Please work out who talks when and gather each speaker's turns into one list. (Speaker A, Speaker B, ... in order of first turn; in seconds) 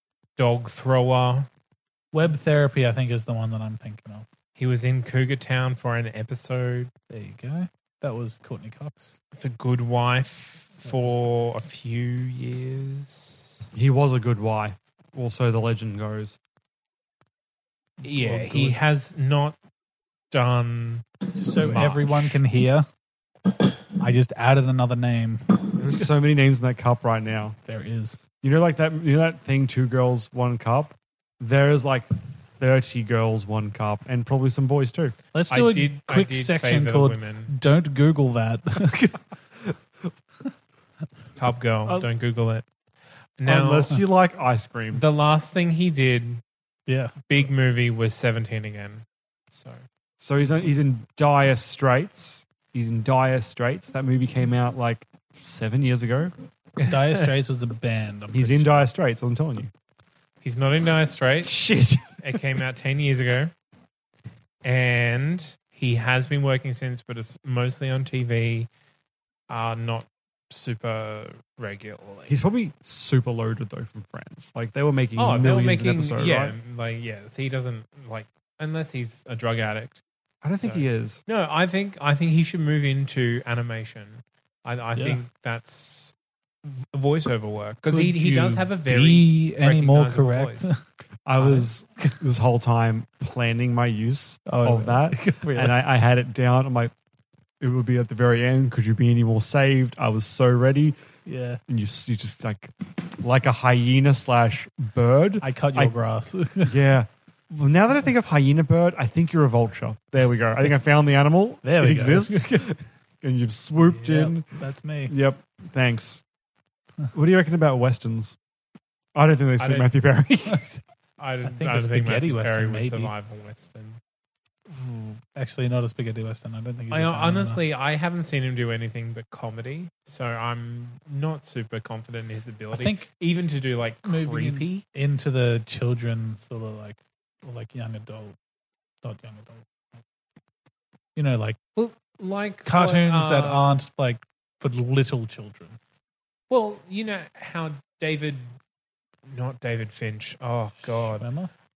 Speaker A: 0.4-1.5, 4.6-6.9, 9.3-13.5, 18.0-19.6, 20.3-22.4, 35.5-37.5, 41.4-42.6, 43.4-44.0, 44.9-46.4, 47.2-49.8, 56.8-57.3, 60.4-61.6, 62.2-63.5, 64.6-68.7, 69.5-72.3, 75.2-80.0, 80.6-86.1, 86.6-90.7, 119.6-119.9, 121.2-124.0, 126.9-134.8, 141.8-143.7, 146.5-148.5, 149.3-151.3
Speaker B: 2.1-4.2, 7.1-9.2, 10.8-11.2, 18.0-18.8, 21.4-22.9, 24.0-25.7, 27.6-28.2, 35.3-39.1, 46.9-47.1, 56.9-58.9, 84.9-85.2, 87.9-90.8, 91.4-92.2, 94.5-95.8, 101.2-101.6, 105.4-106.8, 111.6-112.5, 113.8-115.2, 121.4-123.1, 125.3-127.6, 132.7-133.1, 134.0-138.3, 139.0-139.7, 141.1-141.6, 142.6-145.8, 150.8-151.5
Speaker C: 13.7-16.4, 25.8-27.6, 28.4-35.1, 43.4-45.0, 50.2-56.3, 58.3-59.7, 61.4-62.4, 72.3-76.5, 80.4-81.2, 91.2-96.9, 97.6-101.0, 101.7-105.9, 106.6-114.5, 115.1-116.2, 117.1-118.4, 119.1-120.8, 124.8-125.2